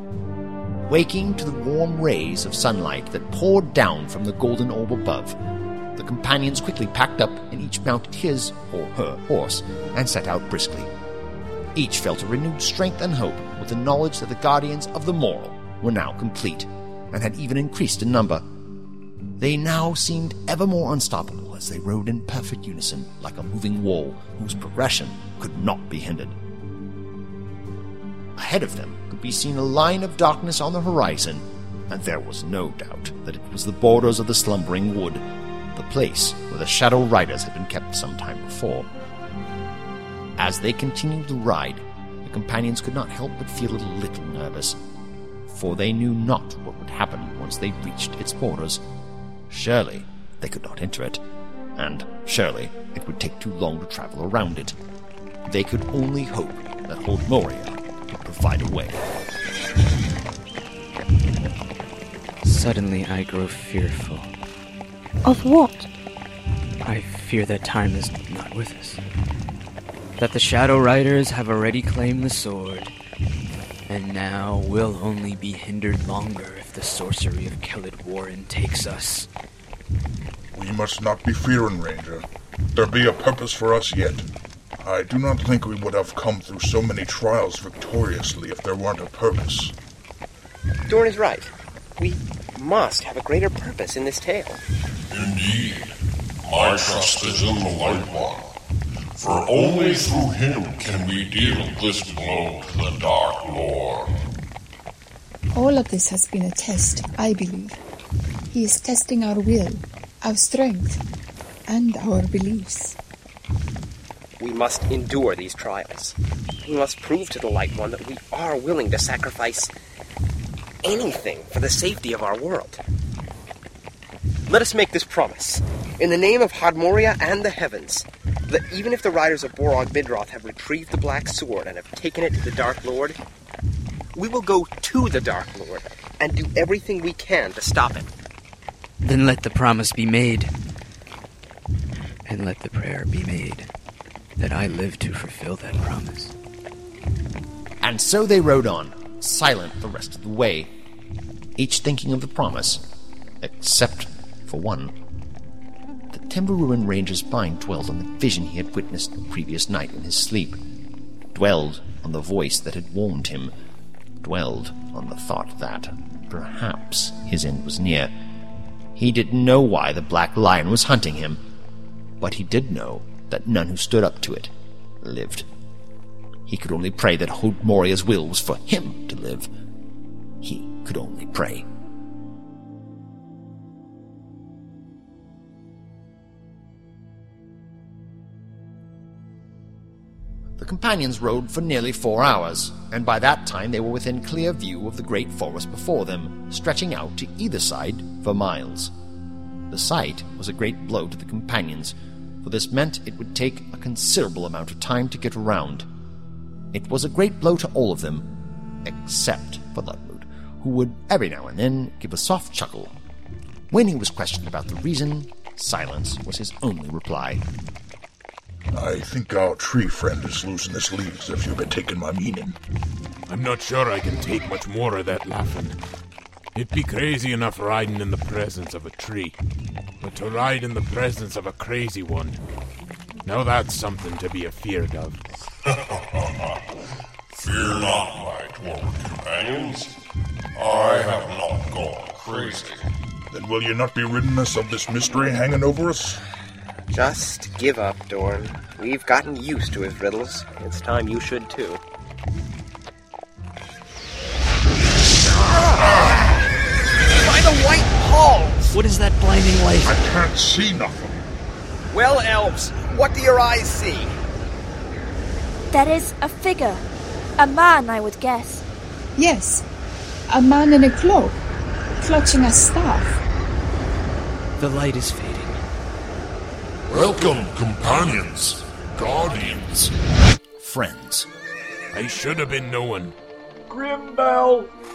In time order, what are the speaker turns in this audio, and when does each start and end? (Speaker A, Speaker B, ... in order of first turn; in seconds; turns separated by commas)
Speaker A: 0.9-5.4, Speaker A: 6.0-10.9, Speaker A: 11.8-18.4, Speaker A: 19.4-26.4, Speaker A: 28.4-38.9, Speaker A: 40.4-44.8, Speaker A: 45.5-48.8, Speaker A: 49.5-51.2, Speaker A: 51.8-54.8, Speaker A: 55.5-59.0, Speaker B: 62.4-64.3, Speaker C: 65.2-65.9, Speaker B: 66.8-69.0, Speaker B: 70.2-72.9, Speaker B: 73.9-79.3, Speaker D: 80.5-84.3, Speaker D: 84.8-89.7, Speaker E: 90.9-94.6, Speaker F: 95.1-95.9, Speaker F: 96.4-98.5, Speaker F: 99.2-104.1, Speaker G: 105.5-107.8, Speaker G: 108.5-111.0, Speaker G: 111.7-113.0, Speaker E: 114.4-119.7, Speaker E: 120.8-122.8, Speaker E: 124.5-133.2, Speaker E: 134.2-138.1, Speaker B: 139.0-140.5, Speaker B: 142.3-143.7, Speaker B: 144.4-146.3, Speaker A: 147.8-150.7, Speaker A: 151.6-152.8, Speaker A: 153.4-154.9, Speaker A: 156.1-160.6, Speaker A: 161.3-163.5, Speaker A: 164.2-168.1, Speaker A: 168.9-171.4, Speaker A: 172.2-175.5, Speaker A: 176.5-179.5, Speaker A: 180.4-181.7, Speaker A: 190.6-198.9, Speaker A: 199.7-205.9, Speaker A: 206.7-208.3, Speaker A: 208.8-212.9, Speaker A: 213.7-217.4, Speaker D: 218.7-222.6, Speaker H: 223.3-225.8, Speaker H: 226.6-229.3, Speaker H: 230.0-232.4, Speaker H: 233.2-235.2, Speaker F: 235.7-236.6, Speaker F: 237.3-239.9, Speaker F: 240.6-242.9, Speaker D: 243.3-246.2, Speaker E: 246.9-251.8, Speaker E: 255.6-256.1, Speaker E: 257.2-258.8, Speaker B: 258.9-260.0, Speaker D: 259.9-261.2, Speaker E: 261.9-264.1, Speaker C: 265.7-266.8, Speaker C: 267.4-268.6, Speaker G: 269.2-269.7, Speaker G: 270.3-271.4, Speaker G: 272.0-273.2, Speaker B: 274.6-275.6, Speaker F: 276.9-278.5, Speaker F: 279.2-279.6, Speaker A: 280.6-281.3, Speaker H: 281.9-283.1